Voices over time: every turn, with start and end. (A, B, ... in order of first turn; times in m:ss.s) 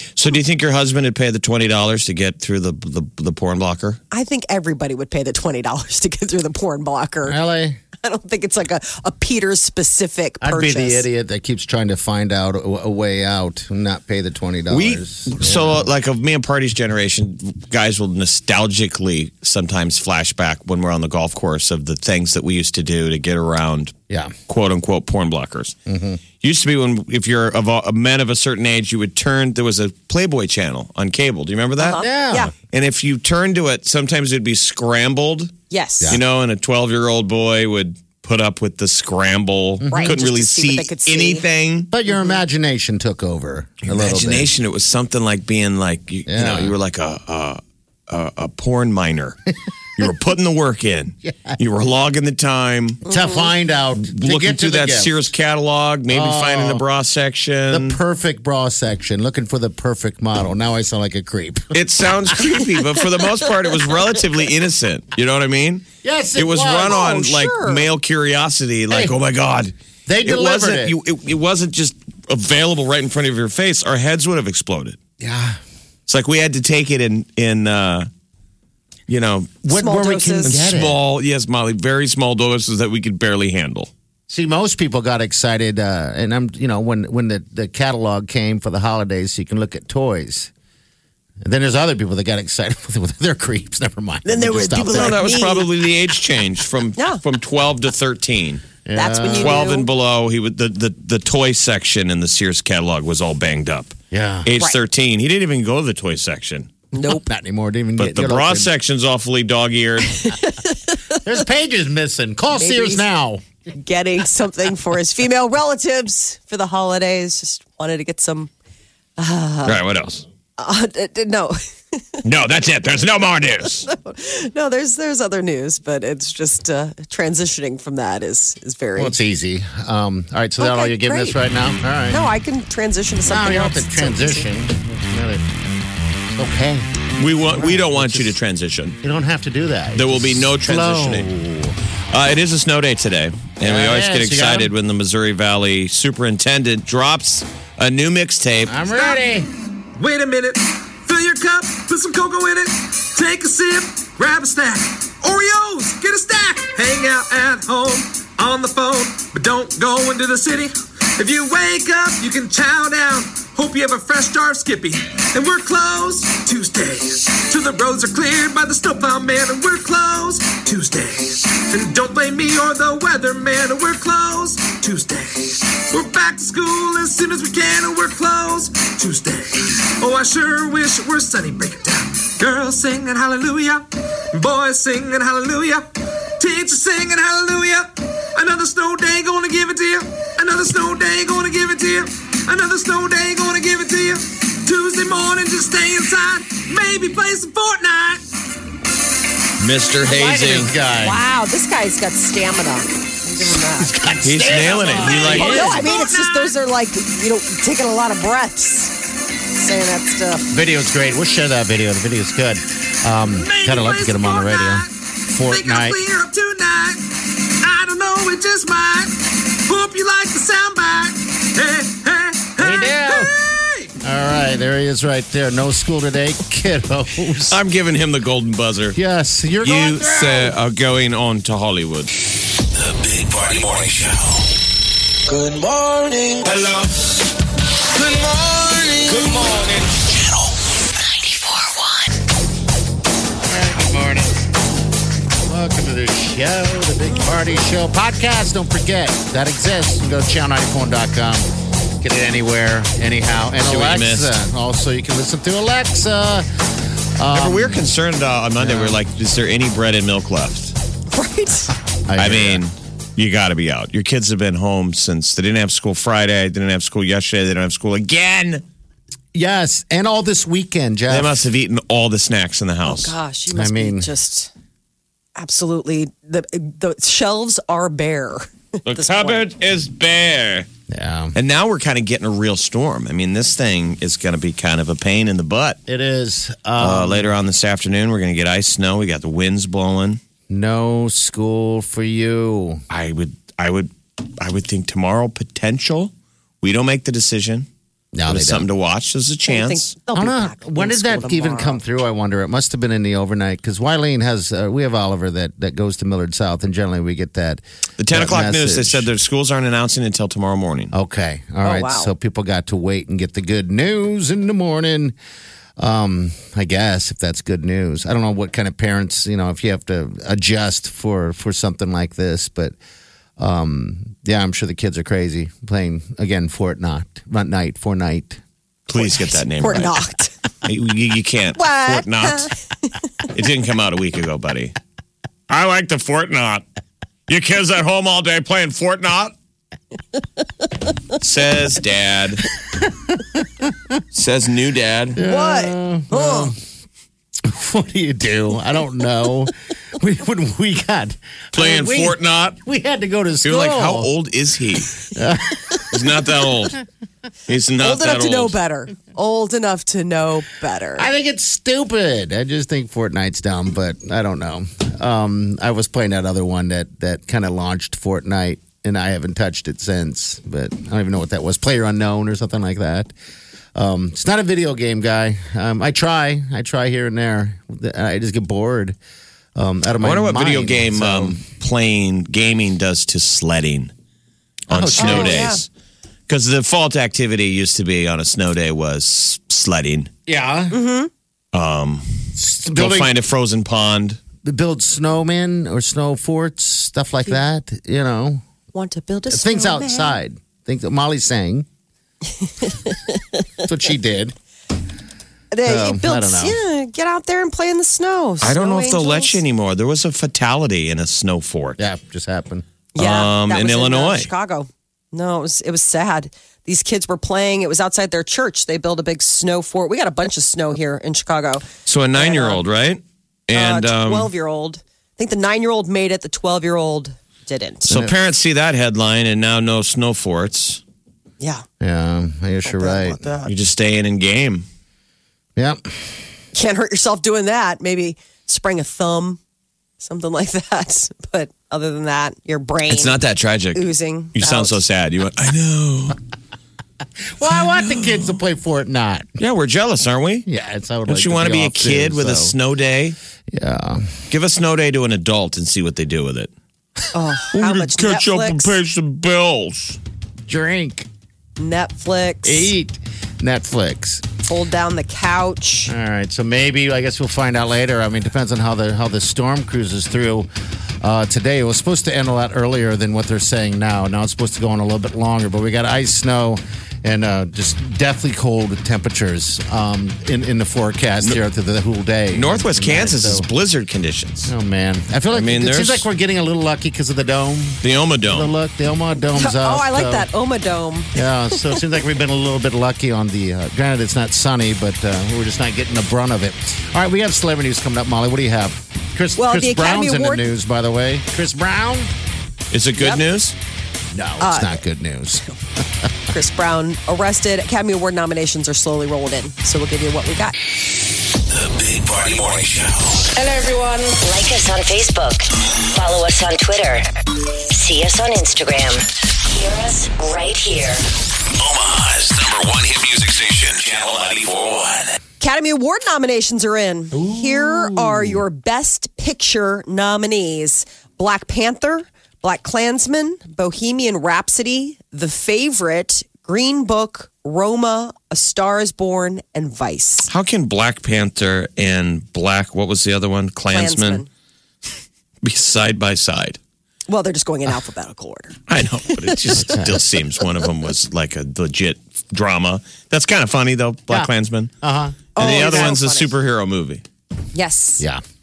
0:00.2-0:04.0 A
0:04.1-0:07.4 B
0:07.3-0:07.8 C
0:08.0-0:11.1 B
0:10.4-0:15.9 C
0:14.7-0:24.0 A
0:24.5-0:25.8 A
0:25.9-0:26.2 C
0:26.4-0:32.0 A
0:31.8-0:32.5 B
0:32.0-0:32.5 C
0:32.7-0:35.5 A
0:35.7-0:36.2 B
0:36.1-0:41.9 A
0:39.8-0:40.2 C
0:39.9-0:41.5 B
0:41.9-0:44.5 C
0:43.8-0:49.4 A
0:46.3-0:46.8 C
0:50.0-0:53.1 A
0:51.2-0:51.6 C
0:53.1-0:55.2 C
0:53.1-0:53.5 B
0:54.0-0:58.0 A
0:56.1-0:56.8 C
0:57.7-1:01.8 C
1:01.7-1:09.7 A
1:06.0-1:07.0 C
1:06.9-1:07.9 B
1:10.1-1:11.0 C
1:10.2-1:15.0 A
1:15.2-1:15.6 C
1:16.1-1:18.1 A
1:19.1-1:19.6 A
1:19.6-1:21.0 C
1:19.7-1:20.6 B
1:20.4-1:23.9 A
1:24.3-1:30.5 C
1:31.4-1:35.4 C
1:34.2-1:35.7 B
1:34.9-1:38.7 A
1:38.8-1:39.7 C
1:39.0-1:39.9 B
1:39.4-1:46.7 A
1:44.1-1:44.5 C
1:46.9-1:47.3 B
1:47.1-1:48.7 C
1:48.0-1:50.4 A
1:50.2-1:51.2 B
1:51.2-1:53.4 C
1:52.6-1:53.1 B
1:53.7-1:58.5 B
1:59.2-1:59.8 B
1:59.6-2:00.2 A
2:00.6-2:02.2 B
2:02.2-2:03.9 A
2:03.9-2:09.2 B
2:09.0-2:12.2 C
2:10.6-2:11.4 B
2:12.1-2:14.5 B
2:13.2-2:15.5 C
2:16.3-2:16.9 C
2:17.2-2:19.0 A
2:17.5-2:18.4 C
2:19.0-2:21.8 C
2:20.0-2:21.3 A
2:22.1-2:28.8 A
2:23.6-2:24.7 C
2:28.7-2:29.5 C
2:30.0-3:18.2 D
3:19.6-3:20.7 A
3:20.0-3:21.2 C
3:21.0-3:23.9 B
3:23.4-3:25.9 C
3:24.2-3:25.8 A
3:24.7-3:26.6 D
3:25.3-3:29.0 B
3:29.5-3:30.5 B
3:30.5-3:36.0 C
3:33.3-3:34.9 D
3:35.4-3:43.9 D
3:42.6-3:43.3 C
3:44.0-3:47.6 C
3:47.5-3:49.0 A
3:49.0-3:50.6 C
3:49.6-3:52.1 A
3:52.7-3:54.5 E
3:55.3-3:57.2 E
3:57.8-4:00.7 E
4:01.2-4:02.1 F
4:03.5-4:04.4 C
4:05.5-4:11.5 C
4:12.0-4:16.5 C
4:13.6-4:14.4 A
4:17.2-4:17.9 C
4:17.3-4:20.8 A
4:18.6-4:19.0 C
4:21.1-4:21.7 B
4:22.1-4:22.6 C
4:22.2-4:28.6 A
4:29.3-4:31.4 C
4:31.1-4:33.2 A
4:32.8-4:34.5 B
4:33.5-4:34.1 C
4:35.4-4:39.4 B
4:38.9-4:40.7 A
4:40.9-4:41.4 C
4:41.4-4:45.8 A
4:45.9-4:47.3 C
4:46.8-4:50.2 A
4:50.5-4:52.8 C
4:52.9-4:57.7 A
4:58.1-4:58.7 C
4:58.3-4:59.9 A
4:59.5-5:01.8 B
5:00.1-5:09.1 C
5:08.0-5:10.9 A
5:10.9-5:15.2 C
5:11.6-5:12.1 B
5:15.8-5:22.8 C
5:23.4-5:28.4 C
5:28.9-5:30.0 A
5:29.0-5:30.3 B
5:30.6-5:32.5 A
5:31.6-5:32.5 B
5:33.3-5:34.8 A
5:35.5-5:36.6 A
5:37.3-5:39.3 A
5:41.1-5:42.4 A
5:42.8-5:43.9 C
5:44.1-5:45.2 A
5:45.2-5:46.6 C
5:45.2-5:46.6 B
5:47.4-5:54.1 C
5:51.5-5:52.6 A
5:53.4-5:55.1 A
5:55.1-5:56.0 C
5:55.8-5:56.8 A
5:57.5-5:58.6 A
5:57.8-6:01.1 B
6:01.0-6:13.1 C
6:13.8-6:19.0 C
6:19.6-6:21.4 C
6:20.0-6:23.9 A
6:24.7-6:25.7 A
6:24.7-6:25.5 C
6:25.0-6:25.6 B
6:26.3-6:30.1 A
6:30.3-6:30.8 C
6:30.7-6:31.1 B
6:31.5-6:34.2 A
6:32.4-6:33.1 C
6:34.4-6:38.4 C
6:38.7-6:40.2 B
6:39.3-6:41.7 C
6:42.6-6:43.4 B
6:43.6-6:44.4 C
6:45.5-6:49.4 B
6:45.6-6:46.6 C
6:48.4-6:51.8 A
6:51.8-6:52.6 C
6:53.0-7:02.6 B
6:53.0-6:54.3 A
7:01.9-7:04.3 A
7:03.5-7:07.9 B
7:07.9-7:10.8 A
7:07.9-7:08.2 C
7:11.4-7:11.6 B
7:11.8-7:13.2 C
7:12.6-7:13.5 B
7:13.5-7:14.7 A
7:15.6-7:16.1 C
7:16.5-7:19.4 B
7:20.0-7:23.2 B
7:22.9-7:26.2 A
7:23.7-7:24.8 B
7:27.4-7:29.3 C
7:27.4-7:28.3 A
7:29.4-7:30.5 A
7:30.5-7:32.6 C
7:31.1-7:33.2 A
7:33.5-7:34.2 C
7:34.3-7:36.5 A
7:37.1-7:38.7 B
7:37.5-7:40.0 A
7:40.5-7:41.1 C
7:41.6-7:42.7 B
7:42.4-7:44.2 C
7:44.4-7:45.9 B
7:45.9-7:50.5 C
7:51.0-8:03.5 C
8:02.3-8:04.5 A
8:04.5-8:10.3 C
8:05.3-8:06.0 A
8:07.8-8:08.5 A
8:09.3-8:11.8 B
8:11.2-8:22.1 C
8:19.4-8:20.5 B
8:22.7-8:23.6 A
8:23.0-8:23.2 B
8:24.1-8:25.5 C
8:24.4-8:24.8 B
8:26.3-8:30.5 B
8:31.4-8:33.3 E
8:33.4-8:34.2 D
8:34.2-8:41.1 F
8:41.5-8:45.2 E
8:45.4-9:00.3 B
8:47.2-8:48.4 C
9:00.3-9:04.2 A
9:03.7-9:04.3 B
9:05.4-9:06.6 A
9:07.1-9:09.6 B
9:08.7-9:14.7 A
9:09.6-9:10.0 C
9:14.8-9:15.2 C
9:15.4-9:16.3 B
9:15.4-9:17.0 A
9:17.5-9:18.0 B